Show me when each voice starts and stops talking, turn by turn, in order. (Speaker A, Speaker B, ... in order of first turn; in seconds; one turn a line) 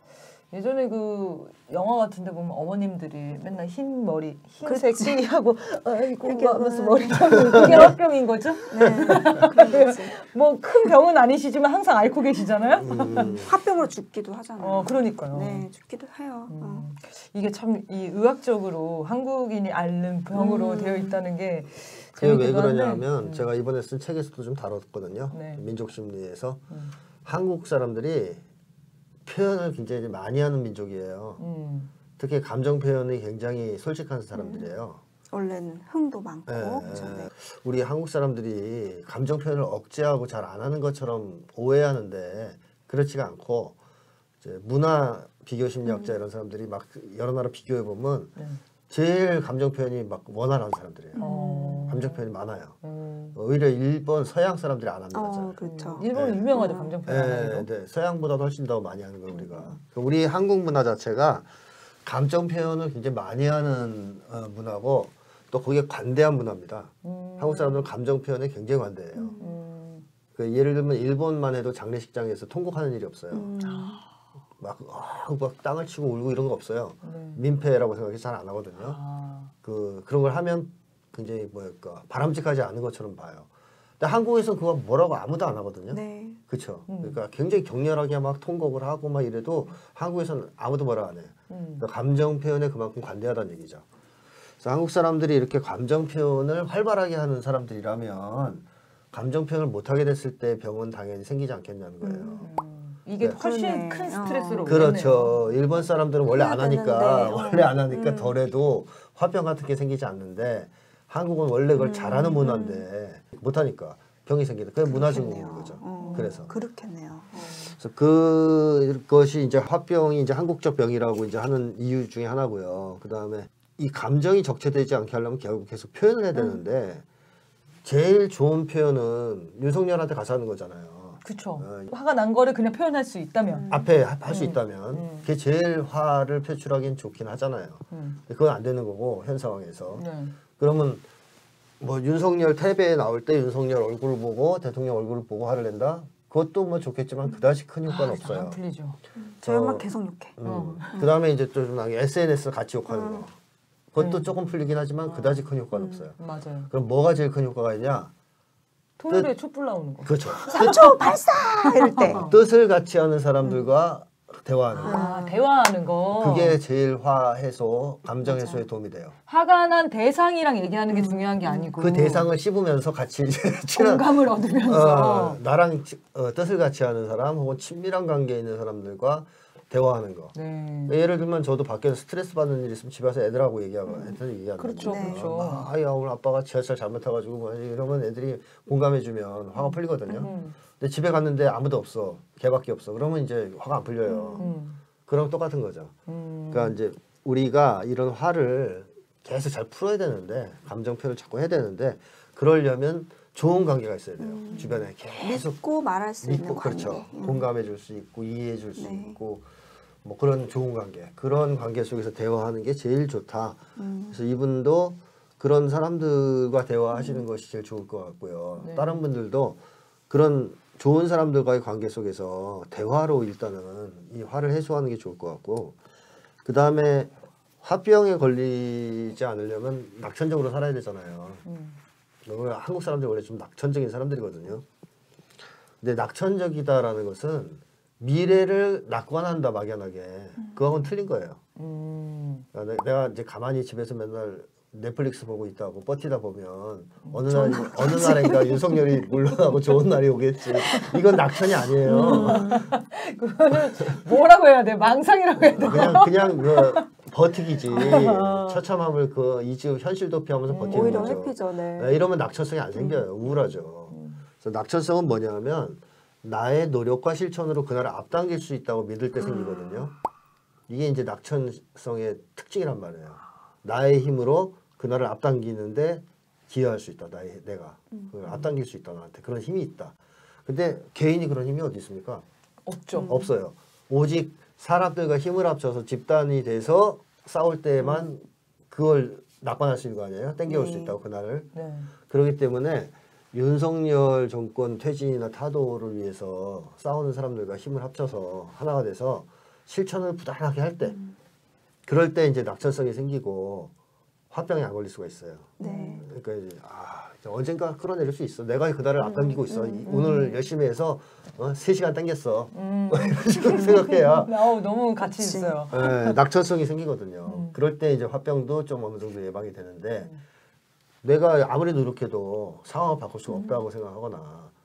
Speaker A: 0.5-13.4
Speaker B: 4.6-5.2
Speaker B: 6.2-7.9
Speaker C: 7.5-7.9
Speaker B: 8.7-10.2
Speaker C: 12.8-13.5
Speaker B: 13.3-16.8
Speaker A: 14.6-15.7
Speaker A: 16.5-23.5
Speaker B: 20.3-21.2
Speaker C: 22.1-26.6
Speaker A: 25.3-25.6
Speaker C: 27.2-28.4
Speaker C: 29.2-31.4
Speaker A: 31.4-31.9
Speaker C: 32.2-35.0
Speaker B: 34.3-34.7
Speaker B: 35.3-37.3
Speaker C: 36.5-43.8
Speaker C: 44.4-48.3
Speaker B: 45.8-46.1
Speaker A: 48.4-48.6
Speaker C: 48.9-51.2
Speaker B: 51.1-51.9
Speaker A: 51.1-52.2
Speaker C: 51.9-52.8
Speaker A: 52.8-53.4
Speaker C: 53.3-55.6
Speaker B: 55.1-56.9
Speaker A: 55.6-57.7
Speaker C: 56.1-56.5
Speaker C: 57.0-61.5
Speaker A: 59.3-59.8
Speaker C: 62.0-69.3
Speaker A: 67.0-67.9
Speaker B: 69.2-69.5
Speaker A: 69.4-70.0
Speaker C: 70.3-73.5
Speaker B: 73.3-74.0
Speaker A: 73.6-74.0
Speaker C: 74.6-79.0
Speaker A: 77.0-77.4
Speaker A: 78.8-79.5
Speaker C: 79.6-83.5
Speaker C: 84.0-93.8
Speaker B: 85.9-86.4
Speaker A: 86.9-87.2
Speaker A: 91.5-91.8
Speaker C: 94.6-102.5
Speaker B: 102.0-102.5
Speaker A: 102.4-105.5
Speaker B: 103.4-104.9
Speaker C: 104.7-116.5
Speaker B: 106.3-108.3
Speaker B: 111.8-112.8
Speaker B: 114.9-117.6
Speaker A: 115.9-116.5
Speaker A: 117.3-117.7
Speaker C: 117.7-127.0
Speaker C: 127.8-131.9
Speaker A: 131.2-133.7
Speaker B: 133.5-133.9
Speaker C: 133.7-141.0
Speaker A: 134.2-135.3
Speaker A: 137.9-138.2
Speaker A: 139.9-140.4
Speaker C: 141.8-148.6
Speaker A: 147.8-149.0
Speaker B: 149.2-150.4
Speaker C: 149.4-149.8
Speaker C: 150.4-153.3
Speaker A: 150.4-151.0
Speaker B: 152.9-153.2
Speaker C: 153.9-156.1
Speaker A: 154.0-154.3
Speaker A: 155.0-155.5
Speaker B: 155.7-156.0
Speaker A: 156.2-156.7
Speaker C: 156.7-158.1
Speaker A: 159.0-160.9
Speaker C: 160.0-161.0
Speaker B: 160.4-162.2
Speaker A: 161.6-162.3
Speaker C: 162.0-165.1
Speaker A: 164.7-166.6
Speaker B: 164.8-165.4
Speaker C: 166.1-169.2
Speaker B: 168.2-168.6
Speaker A: 169.3-172.3
Speaker B: 170.9-171.7
Speaker C: 171.8-180.3
Speaker A: 173.7-175.4
Speaker A: 180.3-180.9
Speaker C: 180.9-194.4
Speaker B: 183.8-184.2
Speaker A: 184.6-185.7
Speaker B: 184.8-185.2
Speaker A: 190.2-190.6
Speaker B: 194.0-194.5
Speaker A: 194.4-194.8
Speaker C: 195.1-195.9
Speaker A: 196.1-196.8
Speaker C: 196.5-205.6
Speaker B: 204.2-207.5
Speaker A: 204.5-204.8
Speaker C: 206.2-209.5
Speaker B: 208.8-209.2
Speaker C: 210.0-225.8
Speaker B: 213.8-214.2
Speaker B: 216.9-217.2
Speaker A: 218.6-219.0
Speaker C: 226.4-231.4
Speaker A: 231.4-231.8
Speaker C: 232.2-234.6
Speaker C: 235.8-241.4
Speaker A: 241.6-242.4
Speaker C: 242.5-252.7
Speaker A: 247.0-248.3
Speaker B: 247.3-248.7
Speaker A: 250.6-256.9
Speaker B: 251.8-252.7
Speaker C: 255.6-269.9
Speaker A: 257.7-258.6
Speaker A: 260.5-261.2
Speaker B: 260.7-262.0
Speaker B: 262.8-263.0
Speaker A: 263.9-264.2
Speaker B: 269.2-269.9
Speaker C: 270.7-279.9
Speaker C: 280.4-282.2
Speaker A: 282.6-283.3
Speaker B: 282.9-283.3
Speaker C: 283.0-291.5
Speaker B: 290.5-291.0
Speaker A: 291.5-291.9
Speaker C: 292.1-301.0
Speaker B: 300.8-301.1
Speaker C: 301.9-303.7
Speaker C: 304.3-314.3
Speaker B: 305.6-306.0
Speaker A: 305.6-306.0
Speaker B: 309.0-310.2
Speaker A: 309.9-310.4
Speaker A: 312.5-316.2
Speaker B: 313.6-314.1
Speaker B: 315.0-315.6
Speaker C: 315.7-320.1
Speaker A: 317.2-317.5
Speaker C: 321.0-324.5
Speaker A: 323.3-323.6